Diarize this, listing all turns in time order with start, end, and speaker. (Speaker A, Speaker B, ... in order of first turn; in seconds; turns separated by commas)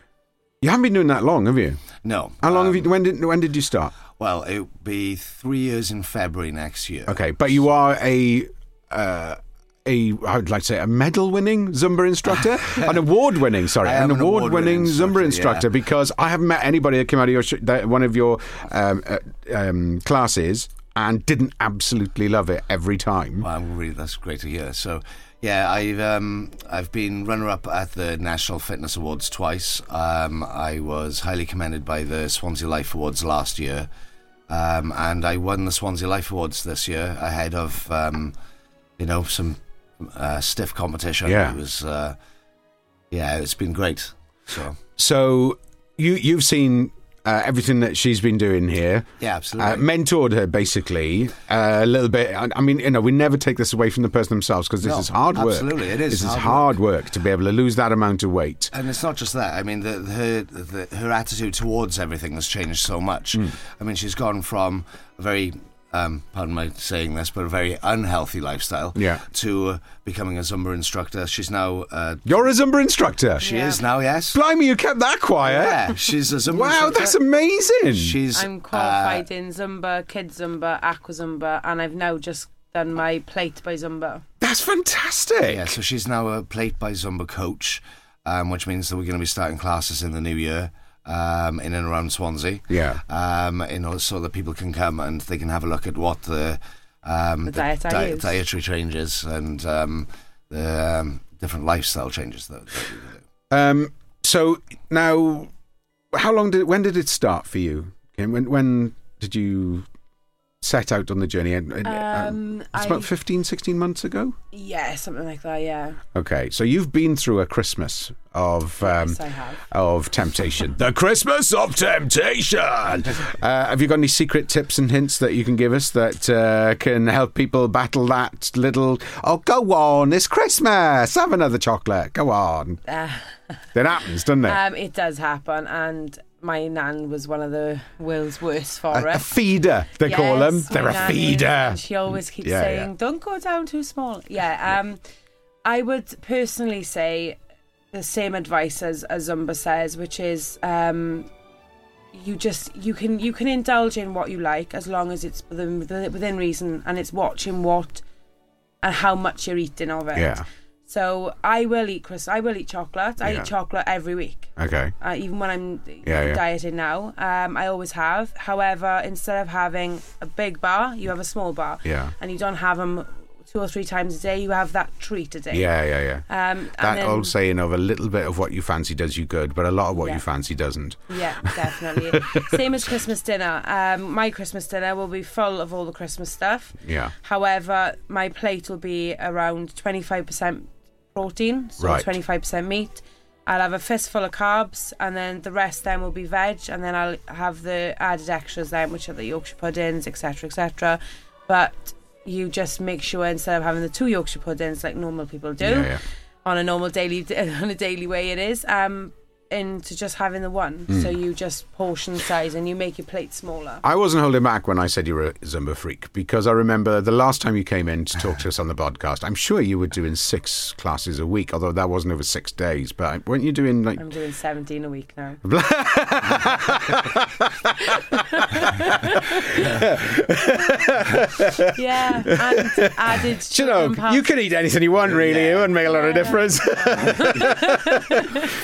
Speaker A: 0.6-4.0, Speaker B: 2.0-2.9, Speaker B: 4.1-7.2, Speaker A: 7.1-23.5, Speaker B: 12.7-13.0, Speaker B: 13.8-15.7, Speaker B: 23.4-33.9, Speaker B: 34.5-38.3, Speaker B: 39.0-42.2, Speaker A: 41.2-41.6, Speaker B: 43.1-44.8, Speaker A: 45.0-49.1, Speaker B: 49.2-49.8, Speaker A: 49.6-58.7, Speaker B: 54.8-56.8, Speaker B: 58.7-72.5, Speaker A: 69.0-69.2, Speaker A: 72.3-73.5, Speaker C: 73.4-73.8, Speaker B: 73.4-74.4, Speaker A: 74.3-75.9, Speaker B: 75.4-77.2, Speaker A: 76.5-78.2, Speaker B: 77.9-79.2, Speaker C: 78.3-84.2, Speaker A: 84.4-85.8, Speaker B: 85.5-103.2, Speaker A: 92.7-93.0, Speaker C: 97.5-98.3, Speaker A: 103.5-105.5, Speaker A: 106.1-109.9, Speaker A: 110.6-114.3, Speaker C: 111.8-113.1, Speaker C: 114.5-116.0, Speaker A: 116.2-119.2, Speaker C: 118.8-119.6, Speaker A: 119.7-132.8, Speaker C: 132.9-133.3, Speaker A: 133.8-134.6, Speaker C: 134.4-139.3, Speaker A: 138.9-141.8, Speaker C: 140.0-145.0, Speaker A: 142.4-142.9, Speaker C: 145.6-147.4, Speaker C: 147.9-151.3, Speaker C: 152.1-158.0, Speaker C: 158.8-177.3, Speaker A: 160.2-160.4, Speaker A: 163.2-163.5, Speaker A: 164.6-164.9, Speaker A: 166.1-166.4, Speaker A: 171.8-172.1, Speaker A: 175.5-176.2, Speaker A: 176.8-181.6, Speaker C: 179.9-180.2, Speaker C: 181.1-205.9, Speaker A: 186.8-187.1, Speaker A: 191.8-192.1, Speaker A: 205.6-206.0, Speaker C: 206.4-213.8, Speaker A: 210.9-211.1, Speaker A: 213.8-224.0, Speaker C: 224.0-225.4, Speaker A: 225.4-231.7, Speaker C: 228.1-229.8, Speaker C: 231.7-234.3, Speaker A: 233.3-238.2, Speaker B: 235.0-235.8, Speaker C: 235.8-238.5